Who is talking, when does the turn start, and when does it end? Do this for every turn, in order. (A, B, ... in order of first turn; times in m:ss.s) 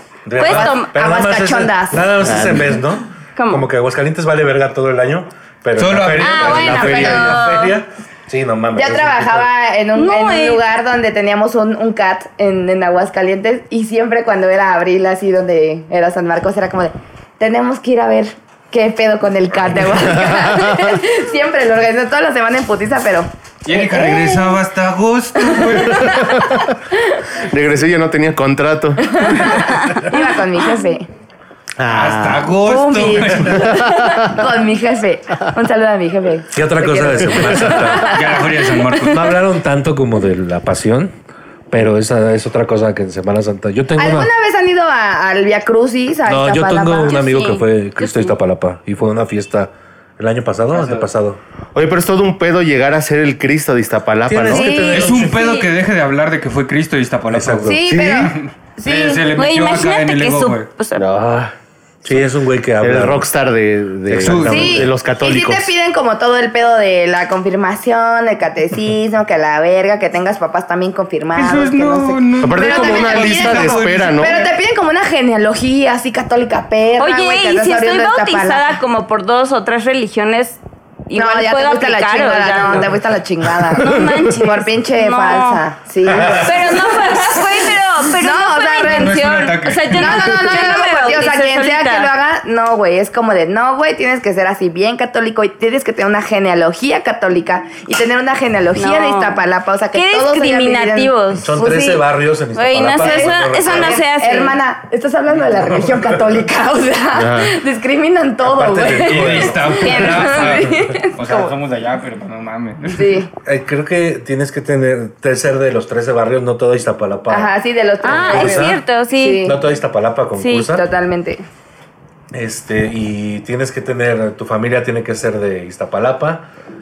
0:00.2-0:09.5 A
0:00.4-0:00.9 B
0:00.4-0:02.1 C
0:02.2-0:02.7 D
0:03.4-0:03.6 B
0:05.8-0:07.4 E
0:06.2-0:07.8 B
0:06.5-0:07.3 D
0:08.7-0:24.5 C
0:09.9-0:10.6 B
0:20.1-0:20.8 D
0:23.6-0:26.2 E
0:25.4-0:26.2 C
0:27.4-0:29.5 D
0:29.1-0:31.1 C
0:31.8-0:32.5 D
0:31.9-0:33.8 E
0:32.6-0:38.7 C
0:33.7-0:34.3 D
0:36.5-0:38.3 A
0:38.1-0:39.4 E
0:39.0-0:41.1 A
0:41.7-0:44.3 A
0:44.0-0:47.4 C
0:46.2-0:51.4 A
0:47.1-0:48.3 B
0:50.7-0:51.0 E
0:51.7-0:54.8 D
0:54.3-0:55.5 A
0:54.5-0:55.1 C
0:54.6-0:55.5 B
0:54.9-1:00.7 E
0:57.3-0:58.3 A
0:57.6-0:59.2 C
0:59.3-1:01.0 B
1:01.0-1:01.5 D
1:02.0-1:03.3 A
1:02.8-1:05.7 D
1:04.1-1:04.9 A
1:04.2-1:04.8 E
1:04.4-1:18.7 C
1:11.3-1:14.5 E
1:12.4-1:14.4 D
1:17.0-1:22.9 B
1:21.1-1:27.5 C
1:23.7-1:25.6 B
1:26.0-1:26.6 A
1:26.3-1:32.1 B
1:28.1-1:29.2 C
1:28.8-1:30.3 E
1:29.9-1:42.0 C
1:38.8-1:39.4 B
1:39.9-1:42.0 B
1:41.3-1:44.0 A
1:42.5-1:44.6 B
1:43.0-1:50.3 C
1:45.7-1:46.1 A
1:47.1-1:47.5 D
1:48.4-1:50.7 A
1:48.9-1:53.2 E
1:49.7-1:51.4 B
1:52.9-1:53.3 C
1:53.4-1:57.5 A
1:57.3-1:59.6 C
1:58.0-1:59.4 B
1:58.0-1:58.8 A
1:59.4-2:00.8 A
2:00.4-2:00.7 B
2:00.6-2:01.4 C
2:02.3-2:06.5 A